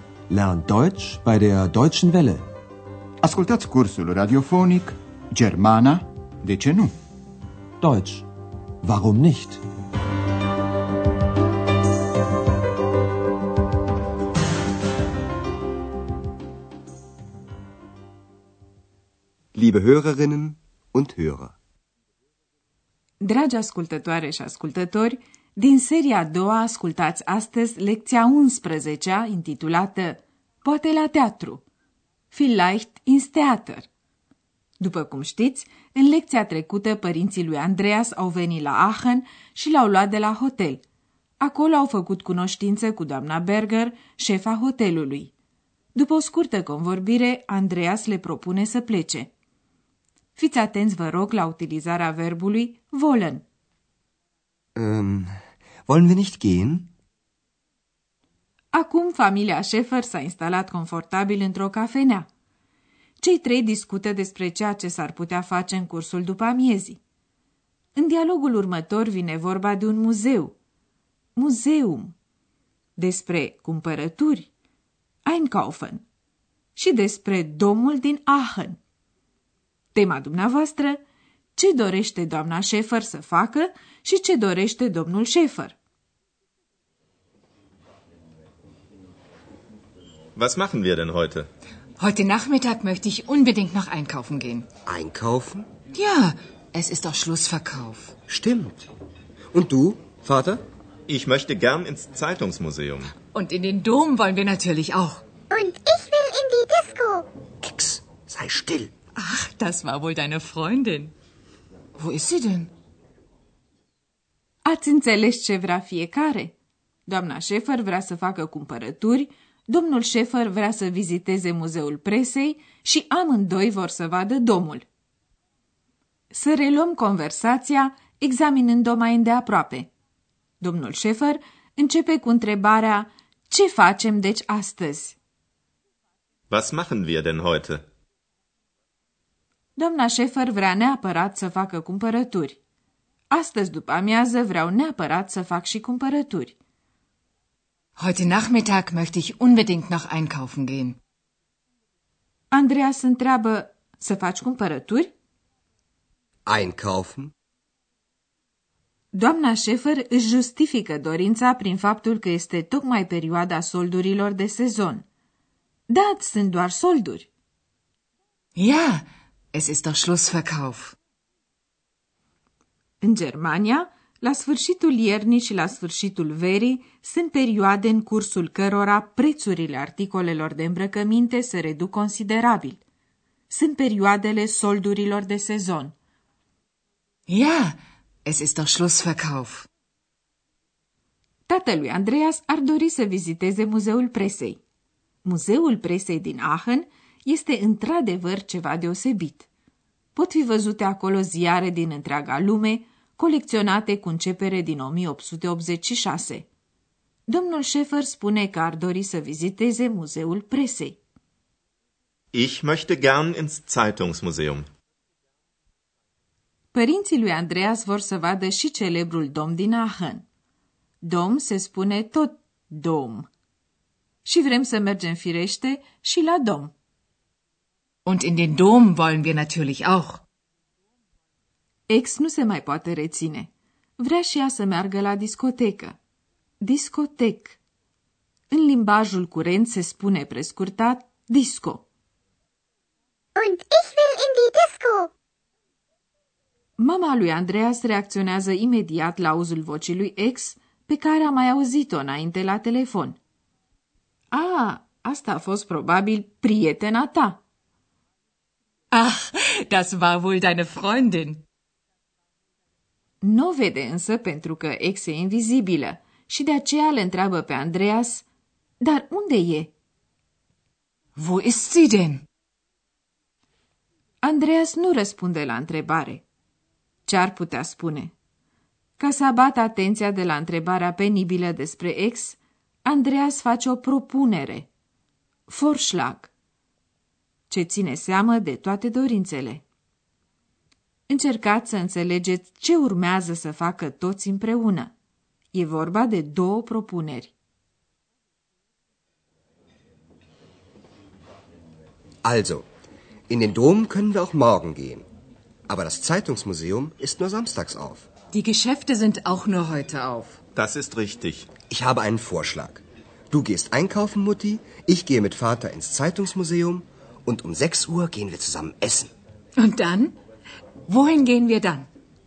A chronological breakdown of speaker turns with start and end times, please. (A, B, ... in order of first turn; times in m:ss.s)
0:00.3-0:02.5 A
0:03.2-0:07.0 B
0:07.8-0:08.3 A
0:08.8-0:09.6 A
0:19.6-0:21.5 C
0:23.2-0:31.6 D
0:32.3-0:33.9 D
0:34.8-0:40.8 D
0:41.4-0:45.3 D
0:46.0-0:49.3 D
0:50.4-0:53.4 D
0:54.8-0:55.3 C
0:55.9-0:56.9 C
0:58.7-1:02.3 D
1:03.2-1:07.0 D
1:08.0-1:10.6 D
1:11.4-1:12.1 D
1:13.0-1:14.5 D
1:15.2-1:16.0 D
1:16.8-1:18.8 D
1:19.9-1:21.0 D
1:21.6-1:25.8 D
1:30.4-1:31.5 E
1:32.0-1:34.7 F
1:34.9-1:35.7 C
1:35.9-1:38.1 F
1:38.3-1:38.9 C
1:39.5-1:40.6 C
1:41.1-1:43.1 E
1:43.2-1:45.2 F
1:45.5-1:47.3 G
1:47.6-1:48.9 C
1:49.2-1:51.1 F
1:52.0-1:52.7 F
1:54.6-1:56.5 D
1:57.1-2:04.9 D
2:06.3-2:09.9 D
2:10.6-2:15.2 D
2:16.5-2:17.8 E
2:19.8-2:22.6 D
2:23.3-2:26.6 D
2:28.0-2:31.0 F
2:32.5-2:35.1 D
2:36.4-2:37.3 C
2:39.1-2:45.0 D
2:45.9-2:47.3 D
2:48.6-2:50.9 F
2:53.0-3:02.8 D
3:03.5-3:05.9 D
3:07.3-3:09.7 F
3:11.5-3:14.6 D
3:15.2-3:19.5 D
3:20.1-3:26.5 D
3:27.3-3:31.0 D
3:32.3-3:34.7 E
3:36.7-3:40.2 D
3:41.0-3:43.3 D
3:44.2-3:46.7 D
3:48.0-3:50.2 F
3:51.9-3:56.0 D
3:56.6-3:57.6 D
3:58.5-4:01.8 D
4:03.4-4:05.1 G
4:06.8-4:13.2 D
4:14.3-4:17.4 D
4:18.9-4:21.4 F
4:23.2-4:28.2 D
4:28.8-4:29.7 D
4:31.2-4:32.2 F
4:34.2-4:36.2 D
4:37.1-4:38.1 D
4:39.0-4:44.7 D
4:45.5-4:46.3 D
4:47.5-4:49.6 D
4:51.1-4:54.9 D
4:55.5-4:57.3 D
5:02.2-5:02.6 C
5:03.3-5:05.0 C
5:05.7-5:08.1 C
5:08.3-5:10.4 F
5:10.5-5:11.5 E
5:11.7-5:19.1 C
5:19.6-5:20.2 F
5:20.9-5:21.9 F